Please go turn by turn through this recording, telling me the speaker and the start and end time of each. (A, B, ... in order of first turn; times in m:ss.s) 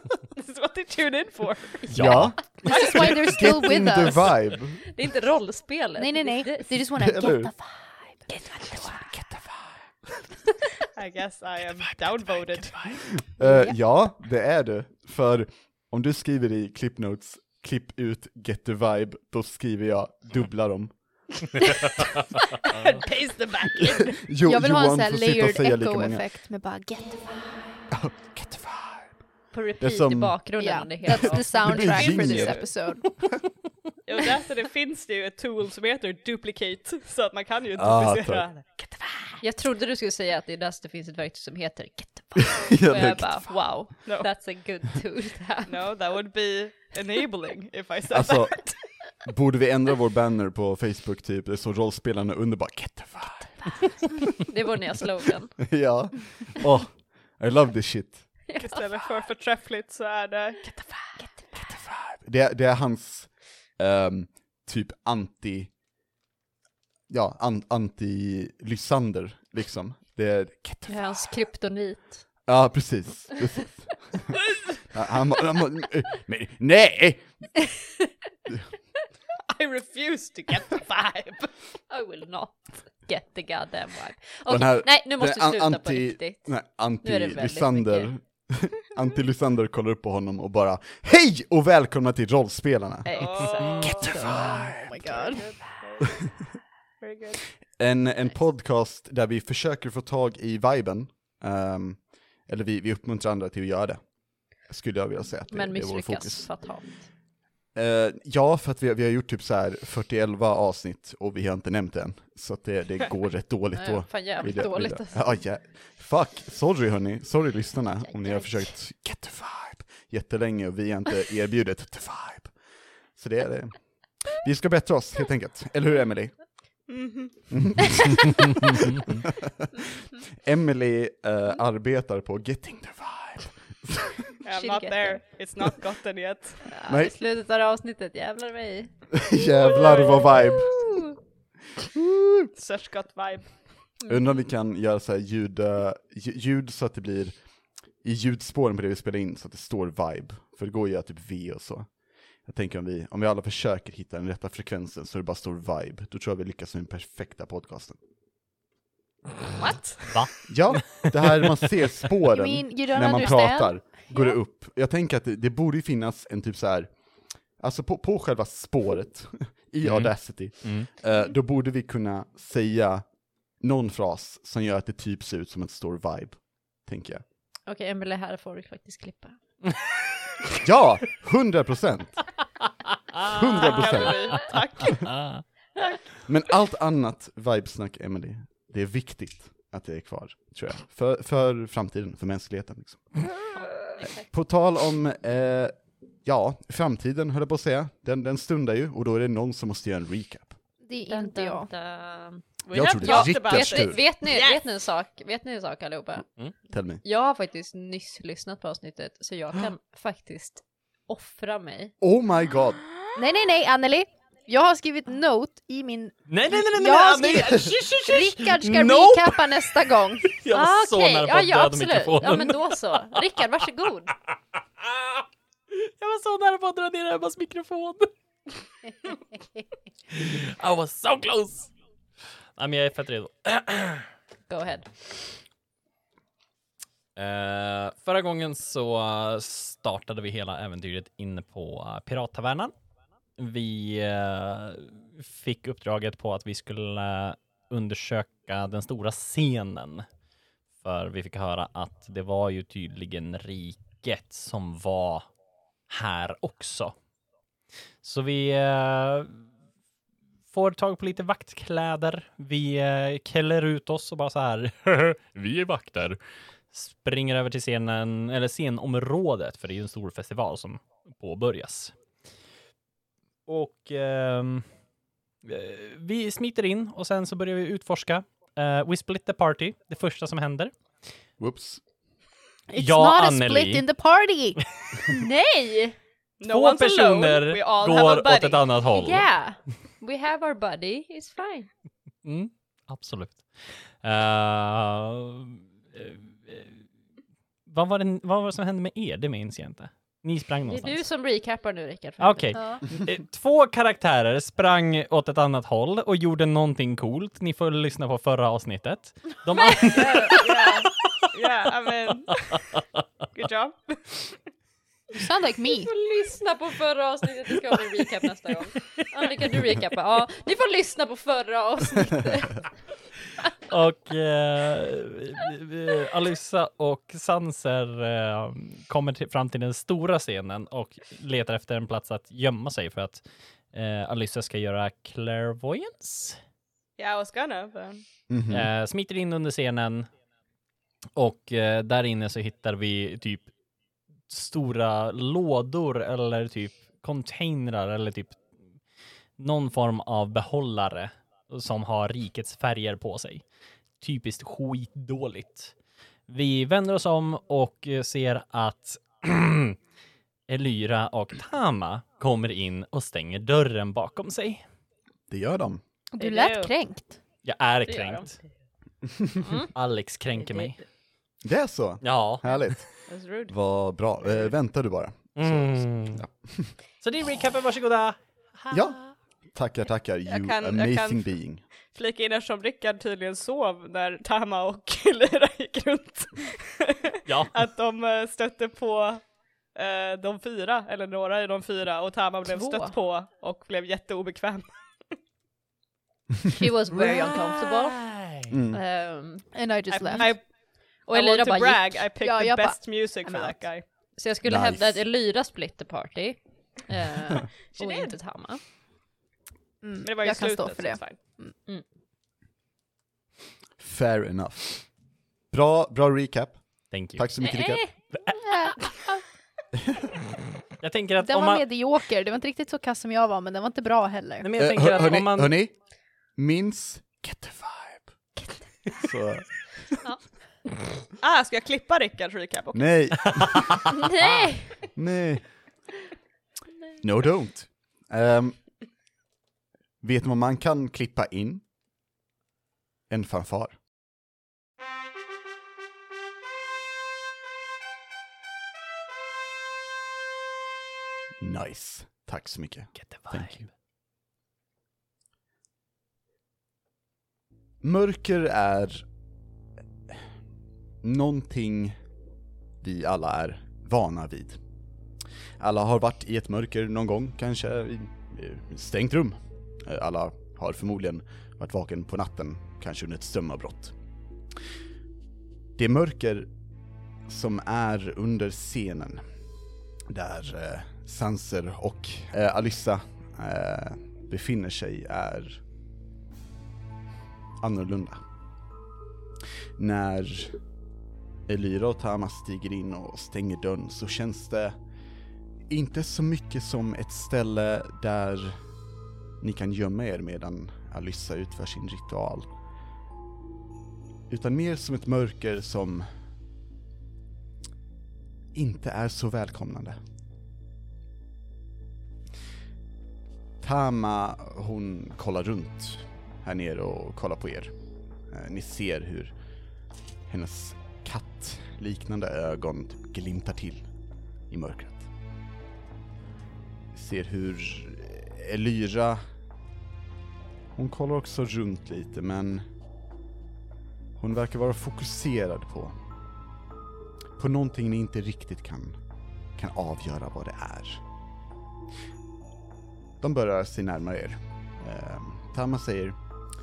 0:00.4-0:01.9 A
0:01.9-0:03.0 B
0:01.9-0:04.8 C
0:02.6-0:04.4 D
0:04.8-0:06.7 B
0:06.0-0:09.0 D
0:07.0-0:07.5 C
0:08.9-0:09.7 C
0:10.9-0:13.0 A
0:13.0-0:20.9 C
0:13.4-0:13.7 D
0:22.6-0:24.2 A
0:23.8-0:26.2 C
0:24.4-0:27.8 D
0:27.9-0:29.1 C
0:29.5-0:31.8 B
0:29.8-0:30.4 C
0:30.6-0:33.1 D
0:31.2-0:32.6 C
0:31.8-0:32.7 A
0:34.0-0:39.4 A
0:37.7-0:38.5 C
0:39.4-0:45.9 B
0:42.6-0:43.5 C
0:45.7-0:48.8 A
0:48.1-0:48.7 C
0:49.2-0:53.8 C
0:54.3-0:55.6 B
0:55.6-0:58.3 C
0:58.5-0:59.2 B
0:58.6-1:01.2 A
1:01.2-1:01.6 B
1:01.7-1:05.7 C
1:07.1-1:11.4 C
1:10.9-1:12.2 B
1:12.5-1:17.5 C
1:19.5-1:21.5 A
1:21.9-1:26.5 B
1:24.5-1:35.1 C
1:27.0-1:28.1 B
1:33.1-1:33.7 B
1:33.1-1:34.5 A
1:33.7-1:35.5 D
1:35.0-1:37.4 A
1:37.8-1:44.0 C
1:44.6-1:46.5 C
1:45.5-1:47.0 B
1:47.7-2:02.5 C
1:53.7-1:55.4 B
1:58.0-1:58.7 B
2:03.2-2:06.3 C
2:06.9-2:07.5 A
2:07.5-2:14.4 C
2:14.4-2:16.6 A
2:14.5-2:15.2 B
2:16.6-2:18.9 B
2:16.9-2:17.1 C
2:19.1-2:20.9 C
2:19.5-2:20.4 A
2:21.8-2:22.5 C
2:22.6-2:23.5 A
2:24.1-2:27.4 C
2:28.0-2:31.9 C
2:32.4-2:38.0 C
2:39.6-2:40.2 A
2:40.1-2:41.4 E
2:40.5-2:46.9 C
2:42.2-2:43.9 D
2:47.6-2:53.0 C
2:49.8-2:50.1 E
2:50.6-2:50.9 E
2:53.6-2:57.2 C
2:57.7-2:59.4 B
3:00.6-3:02.2 C
3:03.2-3:05.1 C
3:03.3-3:05.2 A
3:03.9-3:04.2 E
3:05.0-3:05.4 E
3:06.2-3:13.2 C
3:13.6-3:14.3 B
3:14.3-3:20.6 C
3:20.8-3:21.7 D
3:21.1-3:22.4 B
3:22.7-3:24.6 A
3:22.7-3:24.0 C
3:23.0-3:26.2 B
3:26.7-3:27.0 C
3:27.0-3:31.9 B
3:32.0-3:32.8 C
3:33.1-3:40.4 D
3:36.3-3:43.2 E
3:40.5-3:44.1 B
3:45.0-3:45.2 E
3:45.7-3:48.1 E
3:50.1-3:51.7 E
3:52.6-3:54.1 E
3:54.5-3:54.9 B
3:57.2-4:02.7 E
4:03.4-4:10.0 E
4:10.8-4:15.2 E
4:15.9-4:16.9 E
4:18.0-4:19.4 E
4:20.5-4:26.2 E
4:26.7-4:31.9 E
4:33.5-4:34.6 E
4:35.4-4:40.7 E
4:41.4-4:41.8 C
4:42.7-4:45.9 D
4:42.7-4:43.9 E
4:45.2-4:45.9 B
4:46.4-4:48.7 A
4:46.5-4:49.3 E
4:48.9-4:51.7 B
4:52.2-4:56.8 E
4:57.7-5:01.0 E
5:00.6-5:02.8 B
5:02.2-5:11.1 E
5:09.8-5:12.6 A
5:12.3-5:12.8 E
5:13.3-5:14.4 A
5:15.1-5:15.9 D
5:15.7-5:22.6 B
5:23.7-5:33.2 E
5:33.7-5:36.4 E
5:37.0-5:38.0 A
5:38.3-5:38.7 C
5:38.5-5:40.1 E
5:41.2-5:43.5 E
5:44.3-5:48.4 E
5:49.4-5:53.4 E
5:54.0-5:55.7 E
5:56.3-5:59.8 E
6:00.5-6:04.6 E
6:05.3-6:05.8 C
6:06.1-6:07.2 D
6:06.2-6:06.7 A
6:07.4-6:08.4 E
6:07.8-6:08.3 B
6:09.0-6:09.4 C
6:09.7-6:10.8 E
6:11.4-6:12.9 C
6:12.0-6:12.8 E
6:13.1-6:13.5 A
6:13.5-6:16.7 C
6:15.4-6:16.2 E
6:17.0-6:19.1 E
6:18.7-6:19.0 C
6:19.5-6:21.6 C
6:20.2-6:21.2 A
6:21.9-6:29.2 A
6:27.2-6:27.5 E
6:29.7-6:34.8 A
6:32.5-6:32.8 D
6:36.5-6:38.0 B
6:37.2-6:38.5 E
6:38.5-6:38.8 C
6:38.7-6:39.5 B
6:39.5-6:40.3 D
6:39.9-6:40.5 A
6:41.0-6:42.1 B
6:41.1-6:43.8 A
6:42.2-6:43.6 D
6:44.2-6:48.6 B
6:44.4-6:45.0 C
6:47.7-6:48.2 A
6:49.8-6:51.5 D
6:50.0-6:51.2 A
6:53.8-6:54.8 C
6:55.5-6:57.8 C
6:56.9-6:57.2 E
6:57.4-6:57.9 B
6:58.1-6:58.9 E
7:00.8-7:01.6 E
7:01.2-7:04.5 D
7:04.4-7:05.5 E
7:04.6-7:05.7 C
7:06.4-7:08.1 C
7:09.0-7:09.4 C
7:11.2-7:12.9 A
7:12.7-7:13.8 C
7:13.3-7:13.8 E
7:13.9-7:14.8 B
7:14.9-7:15.4 C
7:17.0-7:18.6 C
7:20.0-7:21.6 C
7:23.1-7:23.8 C
7:31.4-7:33.6 C
7:33.0-7:33.7 E
7:37.8-7:39.0 C
7:41.0-7:42.0 C
7:42.8-7:44.6 C
7:45.6-7:53.9 C
7:55.8-7:56.5 C
7:57.3-7:59.2 C
8:00.1-8:05.6 C
8:07.6-8:08.2 C
8:09.8-8:10.6 C
8:11.5-8:14.8 C
8:15.7-8:18.6 C
8:19.4-8:22.5 C
8:24.3-8:26.1 C
8:28.5-8:30.0 C
8:33.6-8:37.7 C
8:38.3-8:39.3 C
8:40.3-8:43.9 C
8:44.5-8:45.1 C
8:46.9-8:49.2 C
8:50.8-8:52.6 C
8:54.2-8:56.0 C
8:57.4-8:59.0 C
8:59.6-9:01.0 C
9:03.2-9:06.2 C